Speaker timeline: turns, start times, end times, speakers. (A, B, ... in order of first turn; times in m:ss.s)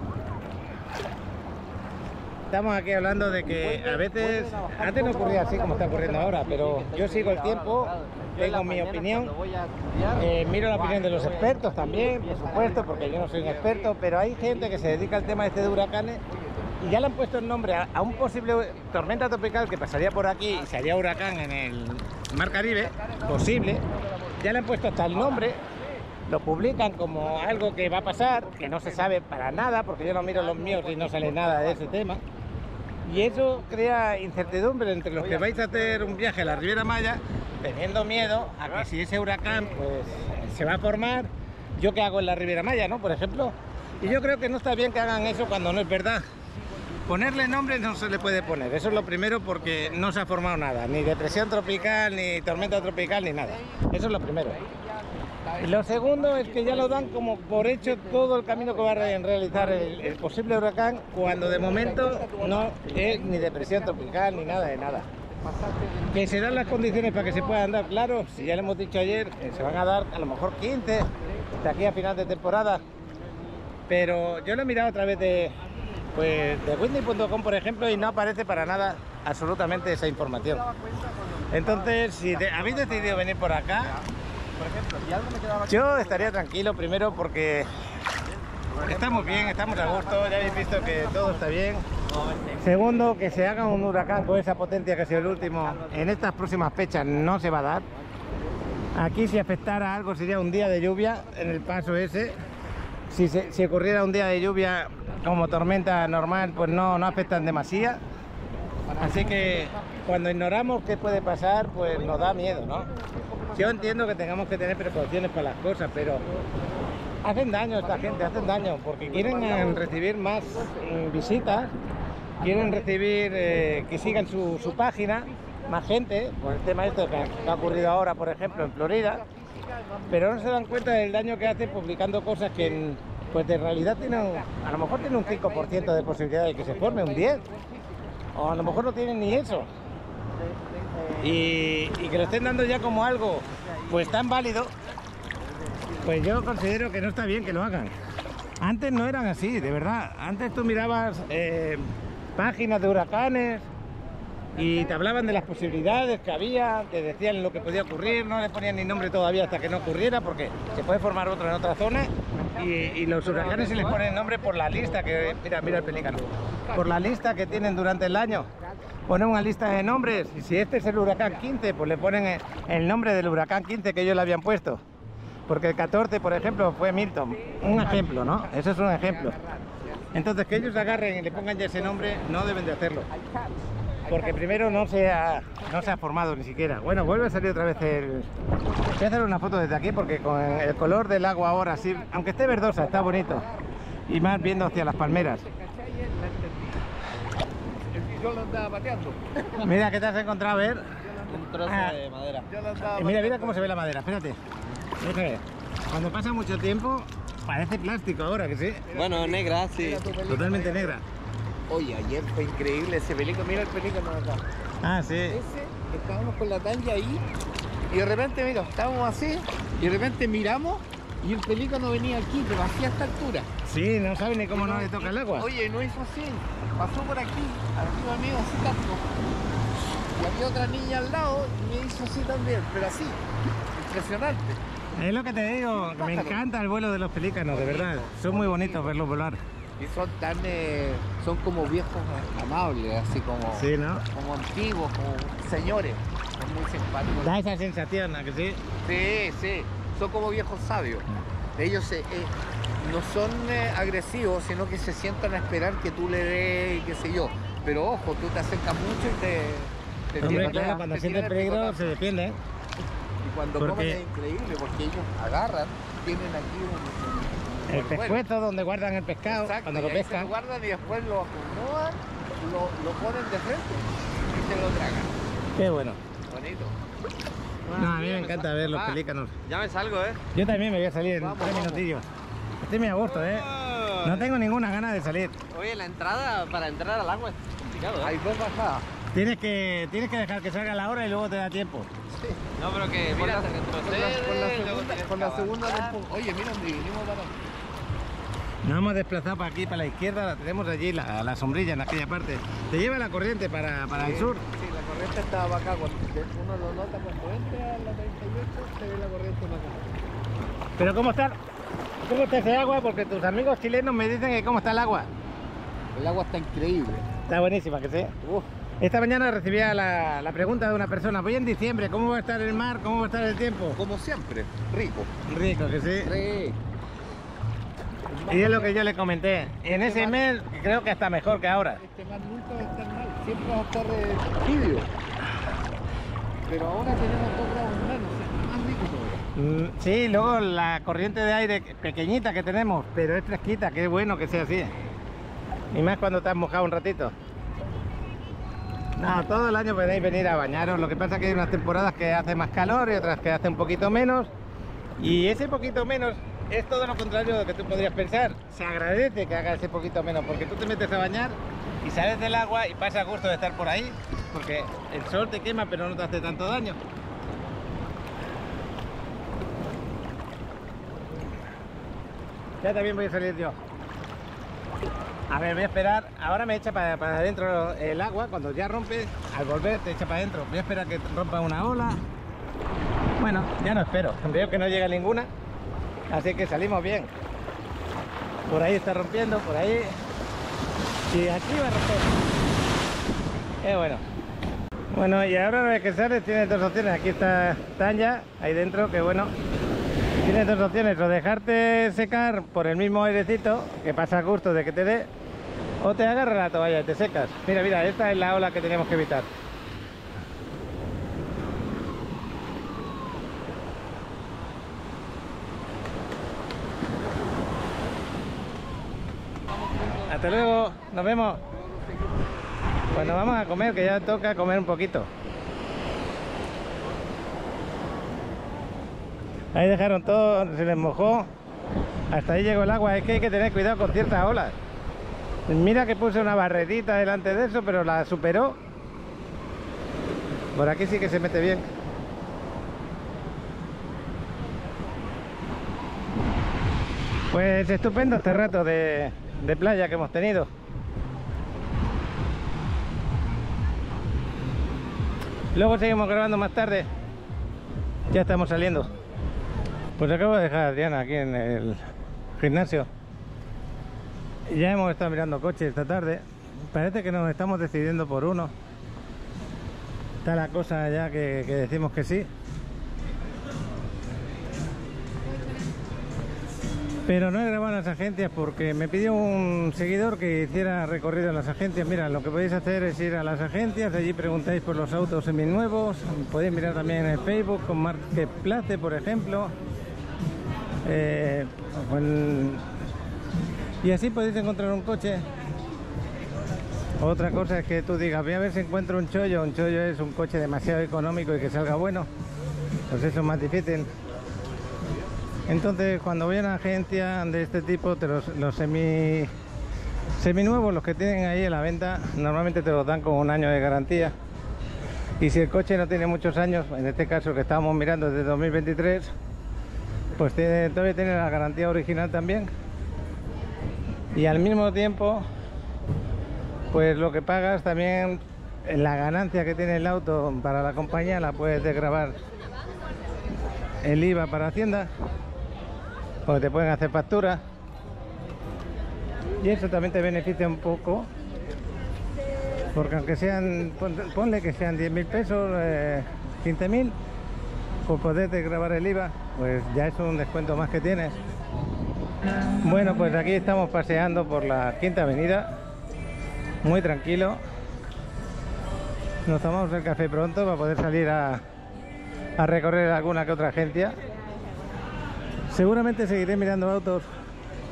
0:02.5-0:09.3 A
0:03.4-0:06.9 B
0:06.4-0:11.5 C
0:10.2-0:16.2 A
0:10.8-0:17.1 B
0:16.8-0:23.8 A
0:18.0-0:19.6 B
0:20.5-0:21.3 B
0:22.4-0:26.0 B
0:24.4-0:25.6 A
0:26.3-0:32.2 A
0:27.2-0:29.2 B
0:29.9-0:32.1 B
0:33.0-0:46.2 A
0:33.1-0:34.6 B
0:35.1-0:36.8 B
0:38.1-0:38.9 B
0:39.4-0:40.2 B
0:45.2-0:45.5 B
0:46.7-0:50.1 B
0:47.1-0:54.6 A
0:50.9-1:00.4 B
0:55.6-1:05.1 A
1:01.3-1:08.7 B
1:06.1-1:11.1 A
1:10.9-1:11.8 B
1:11.6-1:12.8 A
1:13.9-1:15.6 A
1:16.1-1:20.6 A
1:20.1-1:26.4 B
1:21.5-1:23.9 A
1:25.6-1:27.7 A
1:28.7-1:31.6 B
1:28.8-1:31.8 A
1:32.2-1:33.0 B
1:32.6-1:37.8 A
1:35.2-1:36.3 B
1:39.0-1:42.4 A
1:40.9-1:42.3 B
1:43.1-1:48.0 A
1:48.8-1:50.5 B
1:49.0-1:52.9 A
1:51.7-1:54.4 B
1:53.5-1:56.2 A
1:55.9-1:56.7 B
1:57.2-2:01.7 A
1:57.7-2:01.6 B
2:02.4-2:05.8 B
2:02.4-2:09.2 A
2:06.8-2:11.9 B
2:10.1-2:17.4 A
2:12.5-2:18.9 B
2:18.3-2:19.7 A
2:20.5-2:24.2 B
2:21.2-2:24.7 A
2:25.9-2:26.2 B
2:26.0-2:27.9 A
2:28.6-2:33.7 A
2:34.6-2:48.5 A
2:37.5-2:38.1 B
2:39.6-2:40.0 B
2:40.5-2:40.8 B
2:42.5-2:48.8 B
2:49.1-2:54.8 A
2:51.0-2:51.5 B
2:55.5-2:59.4 A
2:57.3-3:02.3 B
3:00.1-3:03.1 A
3:03.1-3:06.0 B
3:04.1-3:08.3 A
3:07.1-3:07.8 B
3:08.7-3:09.0 B
3:09.0-3:13.5 A
3:10.3-3:13.7 B
3:14.1-3:15.4 A
3:14.3-3:16.8 B
3:17.9-3:19.7 B
3:19.6-3:20.8 A
3:21.0-3:21.7 B
3:21.3-3:22.5 C
3:21.6-3:22.0 A
3:22.4-3:23.8 B
3:22.8-3:24.4 A
3:25.0-3:28.8 A
3:28.9-3:31.0 B
3:28.9-3:30.0 C
3:30.3-3:31.0 A
3:31.7-3:34.4 B
3:34.8-3:35.4 A
3:35.3-3:37.2 B
3:37.9-3:43.5 B
3:43.6-3:45.5 A
3:44.5-3:49.1 B
3:50.1-3:53.2 B
3:53.7-3:54.6 B
3:55.0-3:59.4 A
3:55.8-3:56.4 B
3:57.5-3:59.0 B
3:59.8-4:07.4 B
4:03.5-4:04.0 A
4:07.2-4:08.6 A
4:08.8-4:22.0 B
4:20.2-4:22.4 A
4:23.2-4:28.2 B
4:23.6-4:24.0 A
4:27.7-4:30.3 A
4:29.2-4:35.1 B
4:35.6-4:36.0 A
4:36.3-4:36.7 B
4:37.7-4:38.9 C
4:37.8-4:39.3 A
4:39.4-4:40.2 C
4:40.3-4:42.0 A
4:41.2-4:41.8 B
4:42.6-4:43.4 A
4:43.5-4:44.0 C
4:44.0-4:45.4 A
4:45.5-4:48.1 C
4:48.0-4:48.8 B
4:49.1-4:51.9 A
4:52.1-4:52.4 B
4:52.6-4:56.0 C
4:53.1-4:57.4 B
4:58.6-5:04.4 A
5:03.9-5:09.9 B
5:10.8-5:11.4 A
5:12.0-5:15.1 A
5:15.9-5:17.1 B
5:17.3-5:18.1 A
5:18.2-5:18.5 B
5:18.8-5:23.8 A
5:23.8-5:25.1 B
5:25.3-5:26.1 A
5:26.0-5:26.6 B
5:28.1-5:28.9 B
5:28.3-5:31.8 A
5:29.6-5:30.3 B
5:31.3-5:34.9 B
5:36.5-5:39.2 B
5:39.4-5:44.7 A
5:45.7-5:47.1 A
5:49.0-5:54.3 A
5:55.0-6:06.8 A
6:12.6-6:13.6 A
6:15.3-6:22.0 A
6:23.2-6:25.3 A
6:26.1-6:27.1 A
6:28.5-6:29.9 A
6:31.1-6:32.1 A
6:33.6-6:34.0 A
6:34.9-6:39.3 A
6:40.2-6:45.1 A
6:45.8-6:49.3 A
7:00.0-7:01.4 A
7:02.9-7:05.1 A
7:02.9-7:03.2 B
7:09.5-7:11.3 A
7:12.1-7:14.6 A
7:15.5-7:18.6 A
7:20.5-7:21.6 A
7:27.3-7:30.5 A
7:35.5-7:36.9 A
7:38.1-7:38.9 A
7:40.0-7:41.8 A
7:42.4-7:42.9 A
7:44.5-7:48.5 A
7:50.2-7:52.3 A
7:57.1-8:09.5 A
8:10.8-8:12.6 A
8:13.8-8:15.2 A
8:17.0-8:22.1 A
8:22.9-8:23.9 A
8:25.5-8:29.3 A
8:30.2-8:34.1 A
8:35.2-8:39.1 A
8:40.2-8:42.5 A
8:44.1-8:45.2 A
8:46.7-8:52.2 A
8:53.8-8:54.9 A
8:56.3-8:57.4 A
8:59.4-9:01.1 A
9:02.7-9:06.9 A
9:07.8-9:11.2 A
9:12.6-9:15.5 A
9:16.6-9:17.4 A
9:19.2-9:21.4 A
9:22.4-9:23.9 A
9:25.5-9:27.0 A